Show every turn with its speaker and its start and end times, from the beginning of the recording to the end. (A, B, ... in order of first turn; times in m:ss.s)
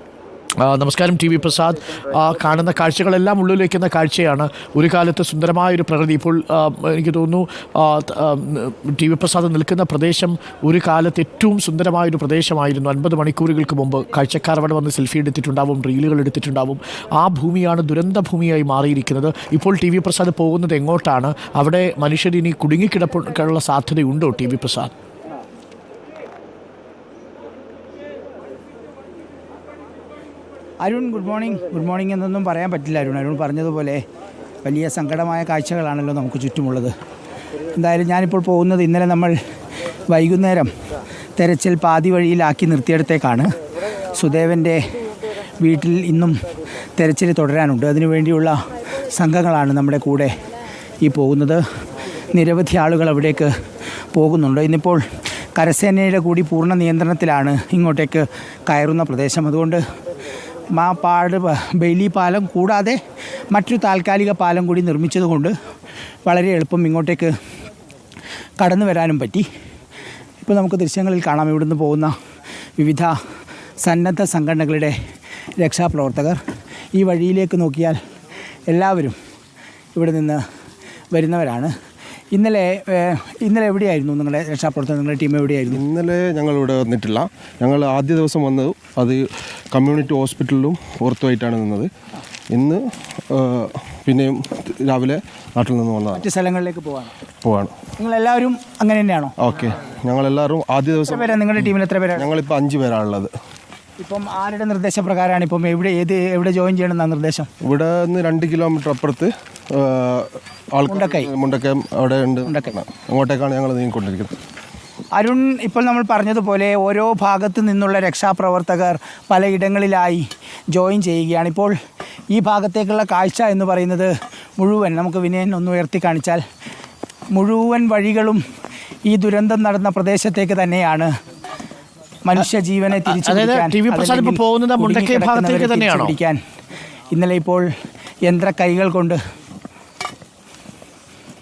0:00.6-0:24.9 A
0:30.8-0:34.0 B
0:34.6-0:36.9 B
0:37.7-0:39.4 B
0:40.1-0:40.7 B
0:41.4-0:43.5 B
0:44.1-0:44.8 B
0:45.6-0:46.4 B
0:47.0-0:50.3 B
0:51.0-0:51.6 B
0:52.3-0:53.5 B
0:54.1-0:55.0 B
0:55.6-0:59.8 B
1:00.7-1:03.0 B
1:03.5-1:05.5 B
1:06.2-1:07.3 B
1:08.6-1:09.4 B
1:10.4-1:12.1 B
1:12.8-1:13.1 B
1:13.8-1:14.9 B
1:15.6-1:16.4 B
1:16.9-1:18.0 B
1:18.7-1:19.2 B
1:19.9-1:20.4 B
1:21.1-1:21.7 B
1:22.3-1:25.8 B
1:25.7-1:31.9 C
1:32.5-1:36.2 C
1:36.2-1:37.1 B
1:37.4-1:37.7 C
1:38.0-1:39.4 B
1:39.4-1:41.3 C
1:41.2-1:42.3 B
1:42.2-1:43.3 C
1:44.0-1:47.5 B
1:47.6-1:54.3 C
1:50.9-1:51.3 B
1:52.5-1:52.7 B
1:55.2-2:01.7 B
2:02.3-2:06.4 B
2:07.3-2:08.4 B
2:09.1-2:11.1 B
2:12.2-2:16.4 B
2:13.0-2:16.1 A
2:17.1-2:17.7 B
2:18.2-2:19.2 B